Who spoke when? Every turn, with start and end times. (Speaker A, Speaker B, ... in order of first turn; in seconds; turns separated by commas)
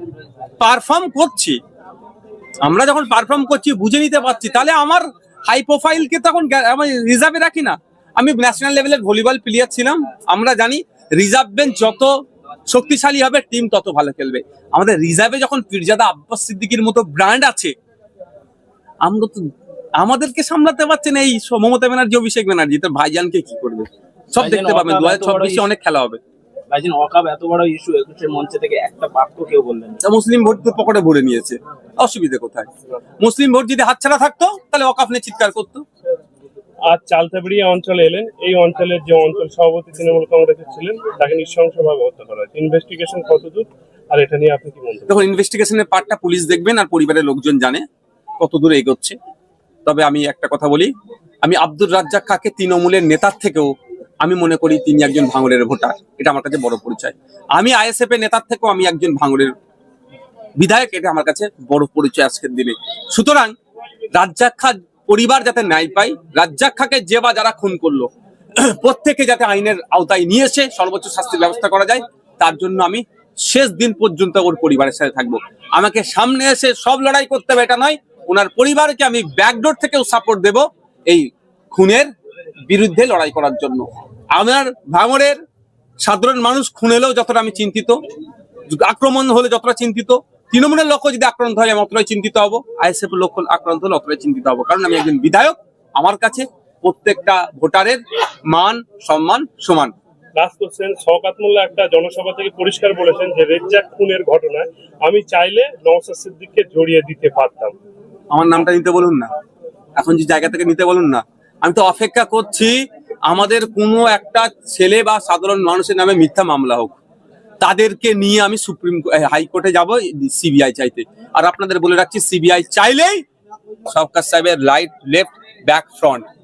Speaker A: 0.6-1.6, Speaker A: 2.6-12.1, Speaker A: 12.7-17.7, Speaker A: 19.0-19.4, Speaker A: 20.0-26.2, Speaker B: 24.4-25.7, Speaker B: 26.7-30.0, Speaker A: 30.0-32.7, Speaker A: 33.2-35.8, Speaker C: 36.9-45.2, Speaker A: 45.1-47.9, Speaker A: 48.4-49.2, Speaker A: 49.9-50.9, Speaker A: 51.4-59.5, Speaker A: 60.6-63.5, Speaker A: 64.2-82.1, Speaker A: 82.7-85.4, Speaker A: 86.0-88.0, Speaker A: 88.7-99.9, Speaker C: 100.4-107.7, Speaker A: 108.3-109.3, Speaker A: 110.0-117.0, Speaker A: 117.6-123.2, Speaker A: 123.9-126.3